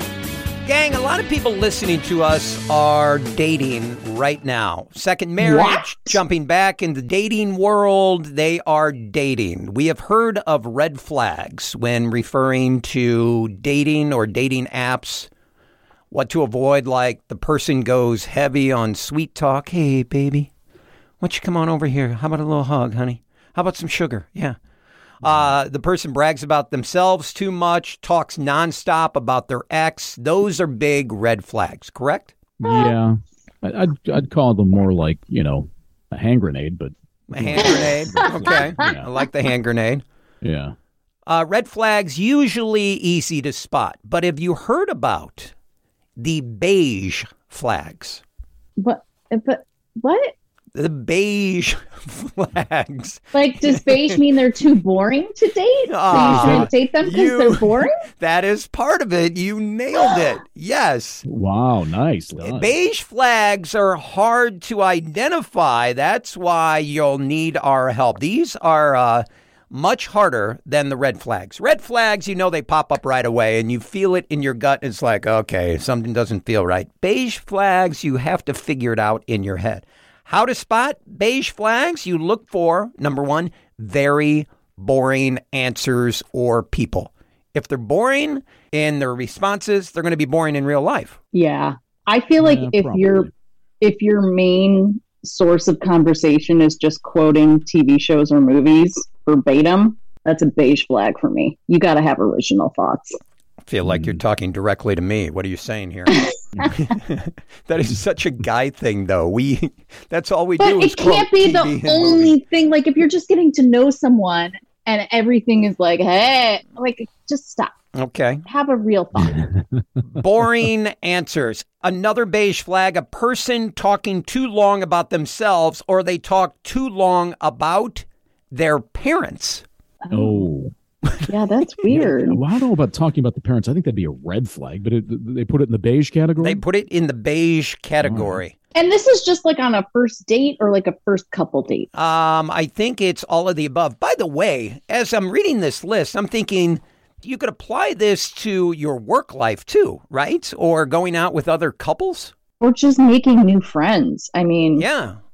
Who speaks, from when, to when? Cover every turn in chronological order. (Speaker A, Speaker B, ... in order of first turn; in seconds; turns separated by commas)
Speaker A: 0.7-15.3, Speaker B: 5.4-6.2, Speaker A: 16.1-20.5, Speaker A: 21.2-24.6, Speaker A: 25.2-32.3, Speaker C: 32.6-39.1, Speaker B: 32.6-32.9, Speaker A: 37.3-40.0, Speaker B: 37.5-38.9, Speaker C: 40.4-40.7, Speaker A: 41.3-45.5, Speaker A: 46.2-48.2, Speaker B: 48.8-50.3, Speaker A: 50.7-54.2, Speaker B: 53.3-58.0, Speaker A: 55.9-61.2, Speaker C: 56.1-56.7, Speaker C: 61.2-62.8, Speaker A: 62.4-91.2, Speaker B: 91.3-93.3, Speaker C: 92.4-93.3, Speaker B: 93.8-103.2, Speaker A: 103.7-112.4, Speaker C: 103.8-104.2, Speaker B: 106.1-106.3, Speaker B: 110.6-117.7, Speaker A: 117.9-118.4, Speaker B: 118.5-119.4, Speaker C: 119.2-120.0, Speaker A: 120.1-129.6, Speaker B: 130.0-130.5, Speaker C: 130.1-130.7, Speaker B: 131.3-132.4, Speaker C: 131.9-136.6, Speaker A: 136.4-138.5, Speaker C: 138.0-138.4, Speaker B: 138.7-141.9, Speaker A: 141.9-152.3, Speaker B: 152.6-154.9, Speaker A: 154.8-155.2